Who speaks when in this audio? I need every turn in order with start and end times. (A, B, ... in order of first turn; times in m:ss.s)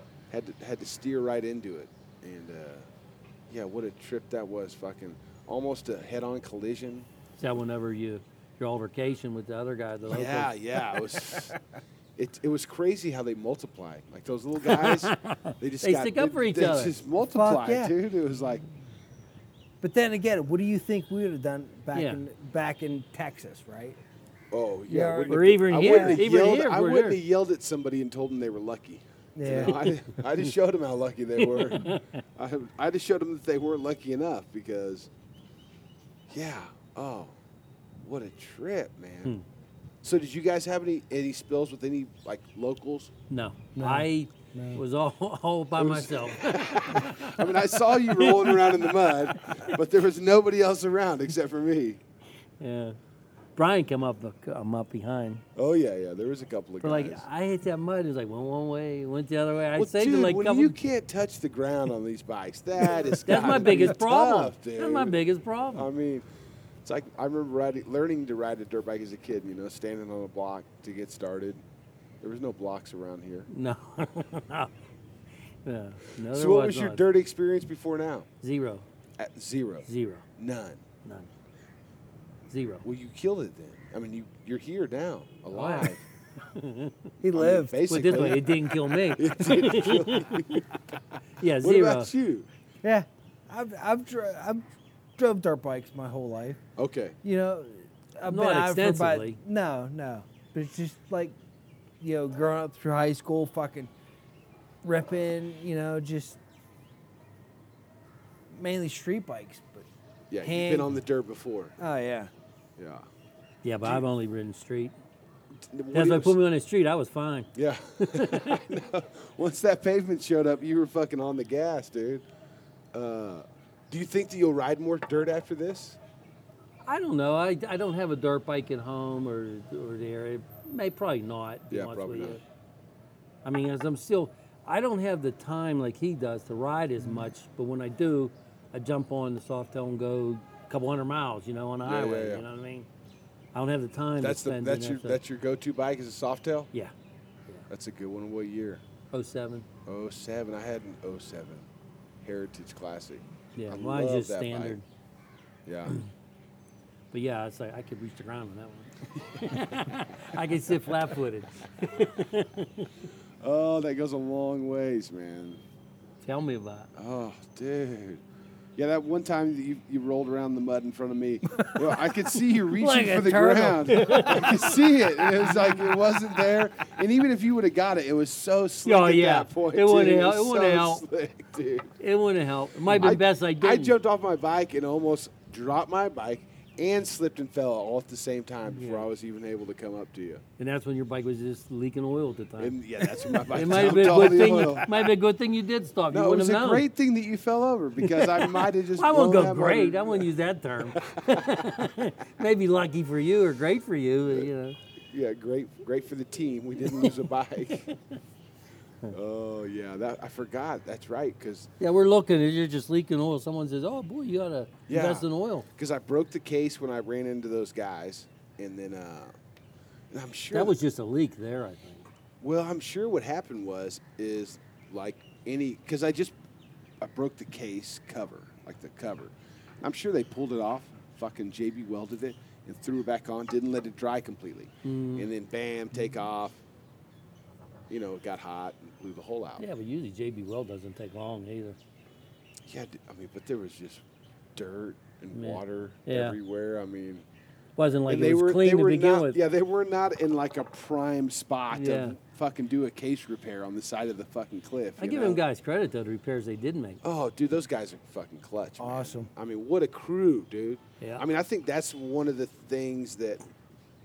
0:00.3-0:02.9 A
0:03.5-0:07.1 A
0:07.4-0:11.0 B
0:10.1-0:11.6 A
0:12.2-0:18.6 A
0:14.6-0:17.0 B
0:17.3-0:17.9 C
0:19.8-0:24.0 C
0:21.9-0:22.2 B
0:24.5-0:35.1 A
0:24.9-0:26.2 C
0:25.3-0:27.2 B
0:29.4-0:29.9 C
0:29.5-0:29.8 B
0:31.4-0:32.2 B
0:36.3-0:37.4 A
0:38.0-0:39.3 A
0:40.0-0:43.1 A
0:43.3-0:49.8 B
0:43.8-0:44.8 C
0:45.8-0:52.0 A
0:52.6-0:53.0 B
0:53.6-0:55.4 B
0:55.6-0:57.2 A
0:56.8-1:00.8 B
0:59.7-1:05.2 A
1:03.2-1:05.9 B
1:03.3-1:03.9 C
1:05.7-1:06.3 A
1:06.8-1:11.6 A
1:12.2-1:13.5 A
1:13.5-1:14.7 B
1:15.6-1:17.0 B
1:16.3-1:18.3 A
1:18.4-1:18.8 B
1:19.2-1:19.9 A
1:19.9-1:20.3 B
1:20.4-1:20.8 A
1:22.5-1:22.8 B
1:22.8-1:26.0 A
1:25.5-1:27.0 B
1:27.2-1:27.8 C
1:27.3-1:30.8 A
1:27.9-1:30.6 B
1:31.4-1:32.1 B
1:31.6-1:32.5 A
1:32.8-1:34.6 C
1:35.2-1:36.6 C
1:36.8-1:37.2 A
1:37.2-1:41.4 C
1:38.3-1:39.4 B
1:42.0-1:43.9 C
1:44.8-1:46.4 C
1:48.5-1:49.9 C
1:50.3-1:51.8 A
1:50.4-1:50.9 C
1:51.8-1:52.3 C
1:52.8-1:53.1 A
1:53.6-1:54.9 B
1:55.7-1:56.4 A
1:55.9-1:58.6 B
1:57.6-2:02.3 A
2:02.9-2:06.0 A
2:06.9-2:12.4 B
2:11.7-2:12.4 A
2:13.4-2:22.9 B
2:21.8-2:22.4 A
2:23.5-2:25.2 B
2:24.2-2:26.7 A
2:27.7-2:28.8 A
2:29.1-2:29.7 B
2:29.9-2:31.7 A
2:32.2-2:34.8 A
2:33.6-2:34.8 B
2:35.7-2:36.0 A
2:37.1-2:42.9 B
2:43.4-2:45.6 A
2:46.2-2:46.9 B
2:47.0-2:48.2 A
2:48.8-3:01.9 A
2:52.7-2:55.9 B
2:58.8-3:01.0 B
3:02.0-3:03.9 B
3:02.9-3:10.4 A
3:08.7-3:09.1 B
3:10.6-3:16.8 B
3:12.6-3:15.1 A
3:16.1-3:20.3 A
3:18.0-3:24.8 B
3:20.9-3:21.7 A
3:25.1-3:27.9 A
3:26.9-3:28.0 B
3:29.1-3:31.7 A
3:31.8-3:35.7 B
3:34.9-3:39.3 A
3:40.1-3:40.8 A
3:40.5-3:42.1 B
3:42.4-3:46.4 A
3:47.0-3:56.6 A
3:54.8-3:55.3 B
3:57.9-3:59.6 A
3:59.6-4:01.8 B
4:02.7-4:04.0 A
4:04.6-4:07.3 A
4:05.3-4:06.4 B
4:07.8-4:09.4 B
4:08.1-4:15.4 A
4:11.7-4:12.2 B
4:15.0-4:17.0 B
4:17.0-4:23.4 A
4:18.8-4:19.3 C